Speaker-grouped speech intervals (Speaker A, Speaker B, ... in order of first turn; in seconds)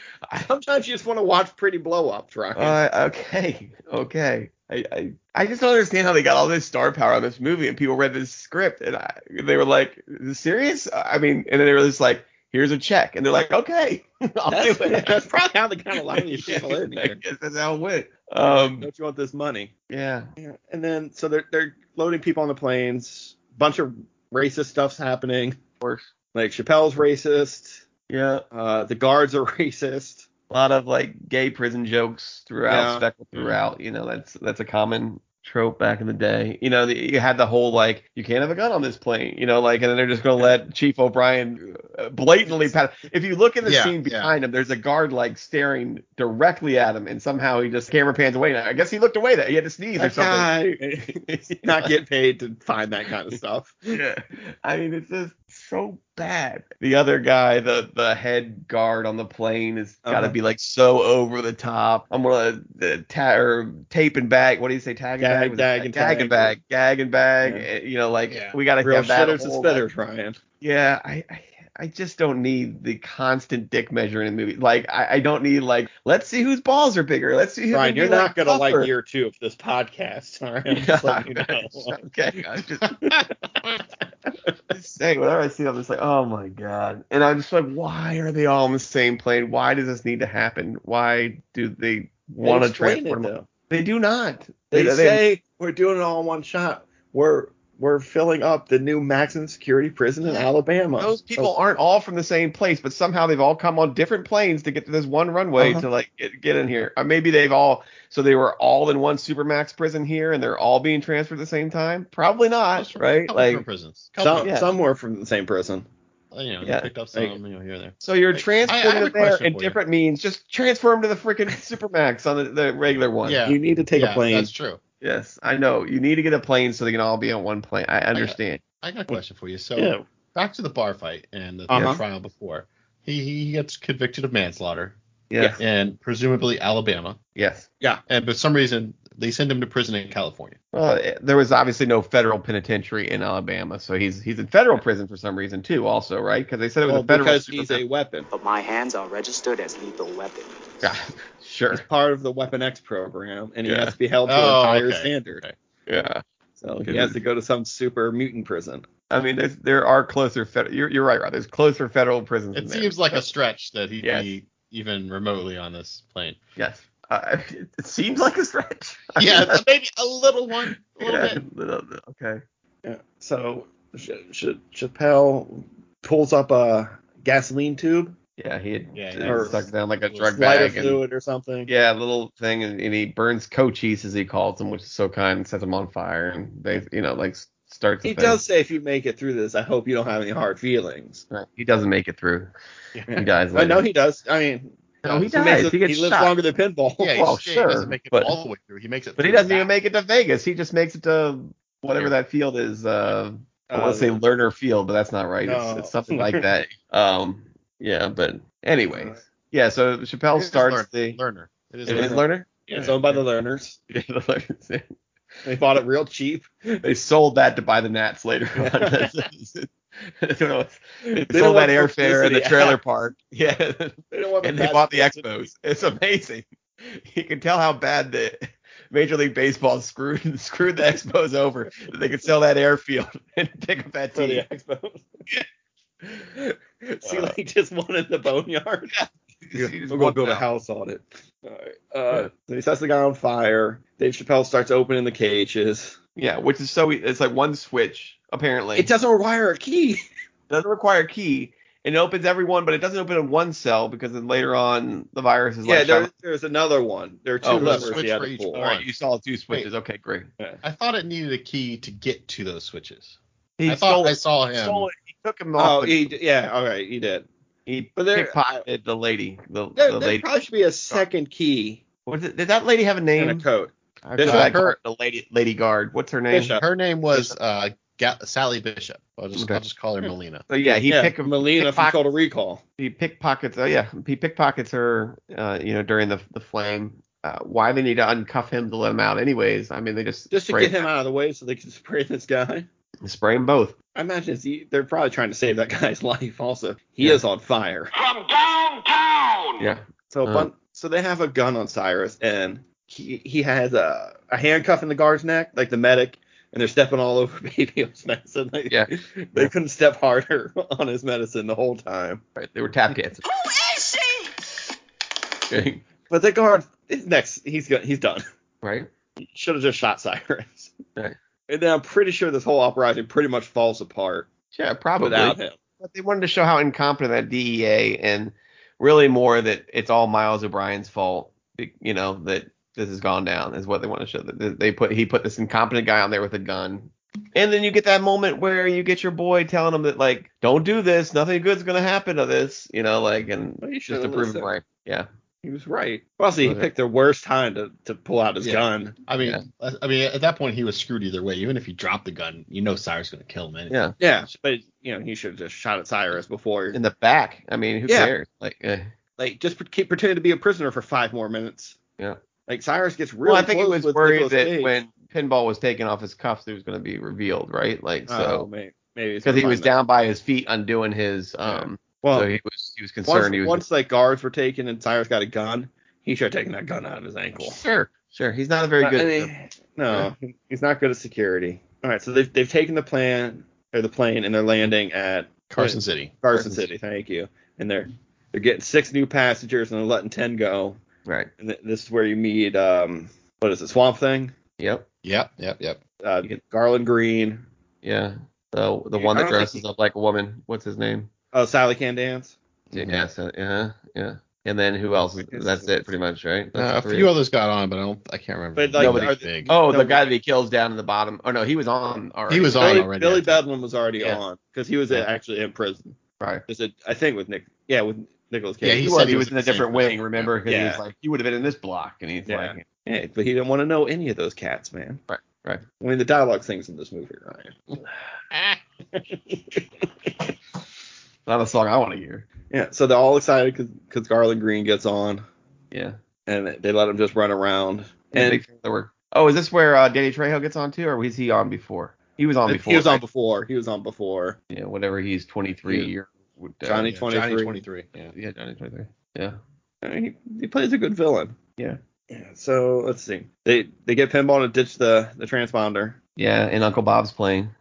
Speaker A: 0.3-2.8, 14.5-17.2, 18.4-19.7, 20.4-25.6, 26.3-27.8, 28.5-30.3, 32.7-33.0, 42.5-42.7, 50.0-53.8, 60.0-60.3, 65.2-66.5, 68.8-70.4, 77.7-81.9, 83.0-83.3, 92.4-93.5, 94.7-101.5, 105.6-105.8, 114.2-115.9, 123.4-124.5, 129.8-130.0, 131.7-132.0, 146.8-148.3, 151.7-155.4, 156.6-158.8, 172.8-178.2, 179.2-179.6, 180.3-181.7, 188.0-191.2, 193.1-197.3, 203.7-204.2, 205.4-206.4, 211.9-213.8, 215.4-216.5, 218.6-219.2, 221.1-222.8, 224.1-225.3, 234.1-235.1, 236.4-238.9, 239.5-246.0, 248.8-250.0, 255.6-258.6, 265.6-267.3, 267.9-268.4, 269.8-271.8, 273.2-274.6, 276.3-276.6, 280.8-282.6, 290.3-292.7, 293.9-297.9, 300.1-312.2, 316.1-318.2, 319.2-320.7, 321.5-324.3, 325.0-325.6, 343.6-344.5, 345.4-349.0, 354.0-356.8, 357.9-358.1, 359.2-361.8, 362.5-364.7, 368.1-369.7, 371.4-372.3, 373.1-377.6, 378.8-390.8, 391.4-394.3, 396.0-397.4, 398.9-399.6, 401.3-402.4, 405.2-405.9, 408.5-410.1, 412.6-416.0, 416.5-419.1, 420.4-420.8, 422.2-425.0, 425.8-427.6, 428.9-429.6, 432.5-435.2, 436.2-438.4, 442.5-444.4, 446.6-447.6, 449.8-451.5, 452.1-456.0
Speaker B: 2.5-15.2, 16.1-18.9, 19.9-20.3, 25.8-26.1, 28.1-28.4, 30.5-50.5, 51.1-51.9, 53.9-69.8, 70.6-78.9, 80.7-83.0, 84.7-95.2, 100.2-113.6, 114.4-114.7, 116.6-116.9, 118.0-123.4, 125.0-128.6, 135.3-135.6, 137.3-137.7, 140.7-147.8, 150.8-151.8, 153.7-153.9, 155.9-156.2, 156.8-157.2, 159.1-163.2, 164.0-164.3, 166.6-169.6, 171.0-172.4, 178.4-181.0, 181.7-188.4, 191.3-192.5, 193.1-193.8, 195.0-196.3, 197.2-198.4, 199.2-211.2, 211.8-212.9, 213.9-214.9, 216.8-234.4, 237.0-237.3, 238.9-240.4, 246.2-248.9, 250.5-256.1, 257.4-258.0, 258.5-260.3, 263.6-266.1, 267.7-270.2, 272.1-273.4, 274.0-276.6, 279.4-279.6, 280.5-282.0, 282.8-290.9, 293.0-293.7, 299.6-300.5, 308.7-309.5, 312.4-313.2, 315.5-315.8, 318.6-318.9, 324.5-345.1, 346.4-346.7, 353.7-353.9, 356.7-358.9, 363.2-368.5, 369.2-373.6, 377.4-379.3, 386.3-386.7, 394.6-394.9, 397.8-401.1, 402.7-407.1, 408.8-412.9, 418.8-422.6, 425.1-425.6, 431.2-432.2, 435.7-436.0, 438.1-443.0, 444.5-446.9, 448.1-449.4, 456.2-457.5
Speaker C: 43.6-44.3, 68.3-68.6, 112.7-114.5, 116.3-119.8, 123.2-124.8, 128.2-135.0, 135.6-137.2, 138.1-140.6, 154.2-155.5, 162.5-166.4, 169.2-171.4, 178.9-180.3, 197.0-199.7, 210.3-212.2, 257.4-258.9, 260.6-264.9, 274.2-274.8, 276.5-280.5, 348.4-353.8, 385.5-386.1, 395.0-395.8, 402.7-403.0, 406.5-409.5, 412.3-413.4, 418.6-420.3, 428.3-428.6, 446.9-448.1
Speaker D: 148.3-150.5
Speaker E: 298.0-299.5, 313.3-314.2